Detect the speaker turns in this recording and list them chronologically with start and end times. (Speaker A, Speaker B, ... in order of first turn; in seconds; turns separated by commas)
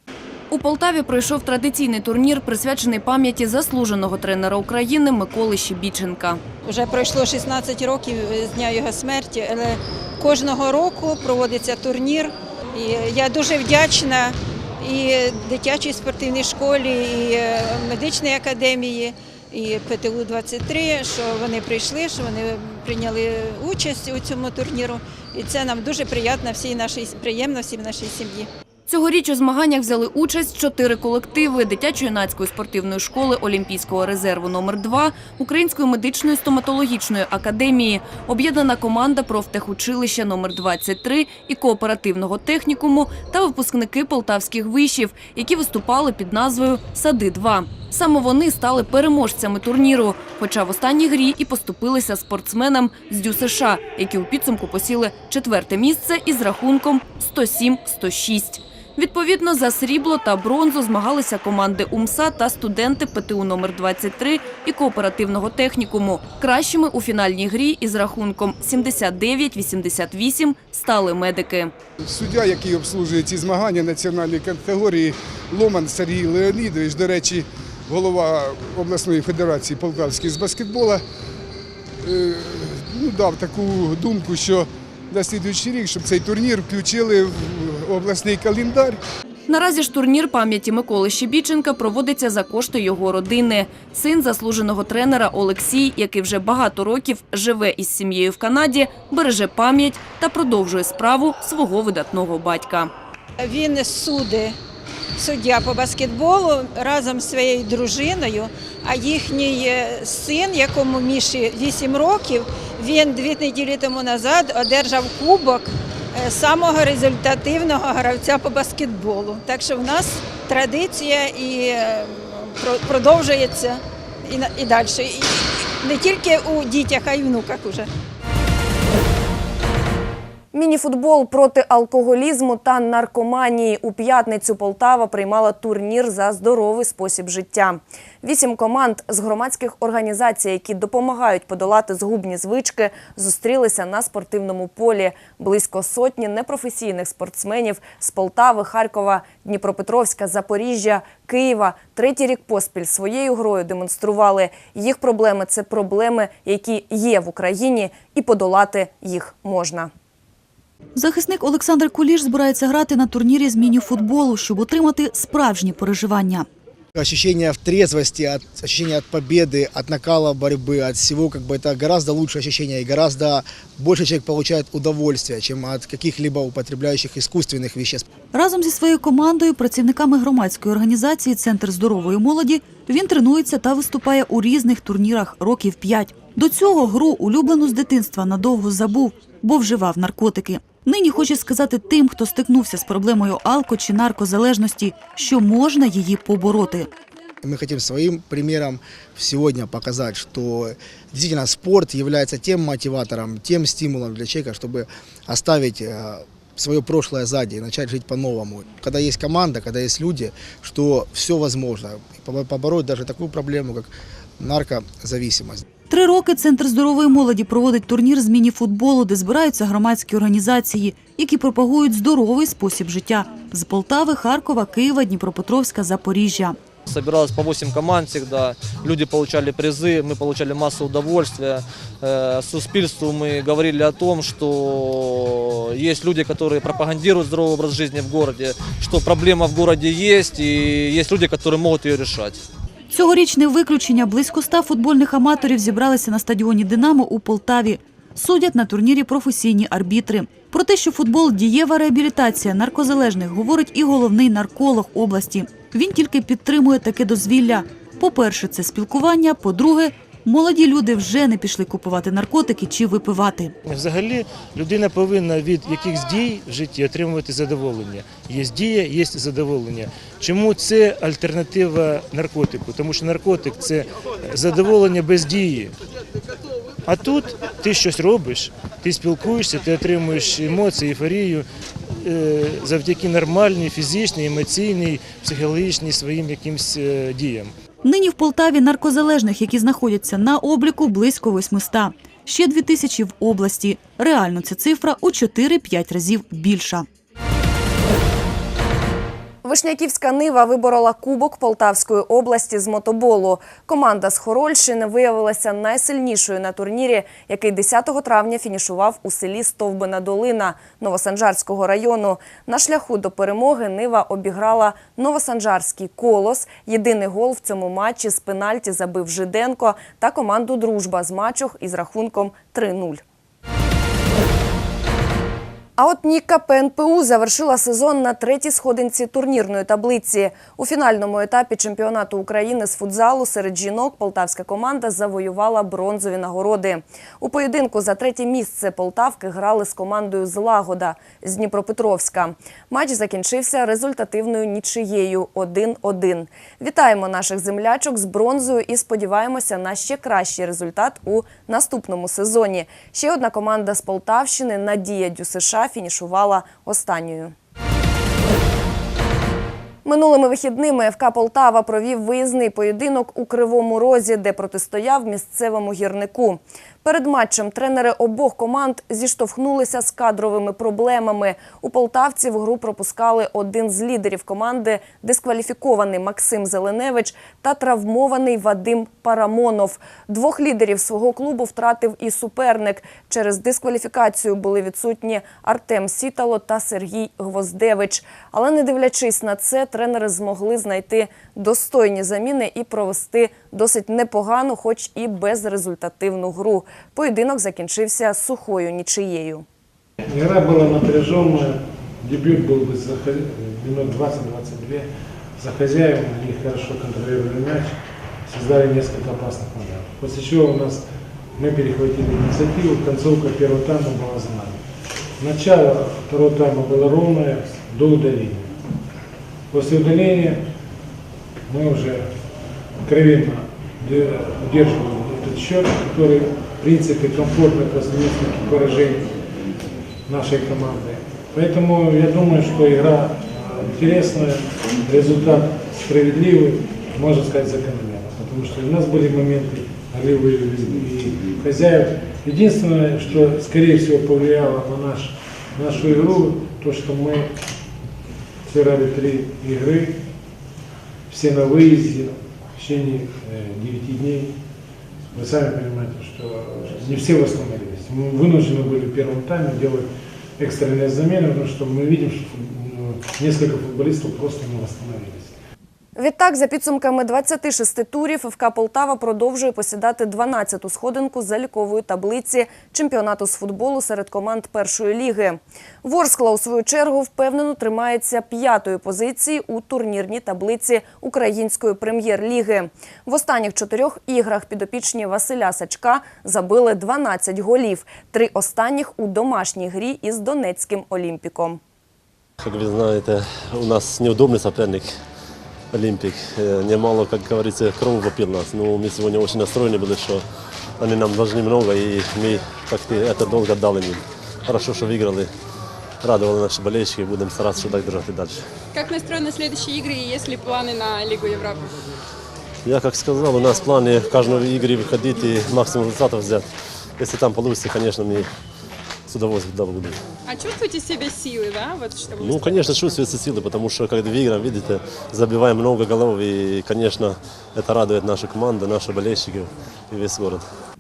Speaker A: 0.5-6.4, Speaker B: 6.6-28.5, Speaker A: 28.9-71.7, Speaker C: 72.0-81.0, Speaker C: 82.0-89.0, Speaker A: 89.5-102.9, Speaker B: 103.4-104.6, Speaker B: 105.2-127.9, Speaker A: 130.5-159.9, Speaker D: 161.0-166.5, Speaker E: 166.9-178.1, Speaker D: 178.3-196.9, Speaker E: 197.4-215.6, Speaker D: 215.9-226.6, Speaker F: 226.9-242.4, Speaker D: 242.9-263.6, Speaker G: 263.6-275.7, Speaker G: 276.9-281.5, Speaker G: 282.0-287.5, Speaker D: 287.8-296.9, Speaker A: 299.4-323.0, Speaker A: 325.8-357.3, Speaker A: 359.9-399.4, Speaker H: 400.1-414.6, Speaker H: 415.2-418.5, Speaker H: 419.5-420.4, Speaker H: 421.5-422.1, Speaker H: 422.8-429.1, Speaker H: 430.1-447.3, Speaker H: 448.5-450.0, Speaker H: 451.1-454.4, Speaker H: 455.1-465.4, Speaker A: 466.0-491.6, Speaker I: 492.4-494.9, Speaker I: 495.7-500.2, Speaker I: 500.8-505.3, Speaker I: 506.0-508.4, Speaker J: 508.7-511.7, Speaker I: 512.6-516.5, Speaker I: 517.0-518.3, Speaker I: 519.1-520.0, Speaker J: 520.3-522.7, Speaker I: 522.2-530.5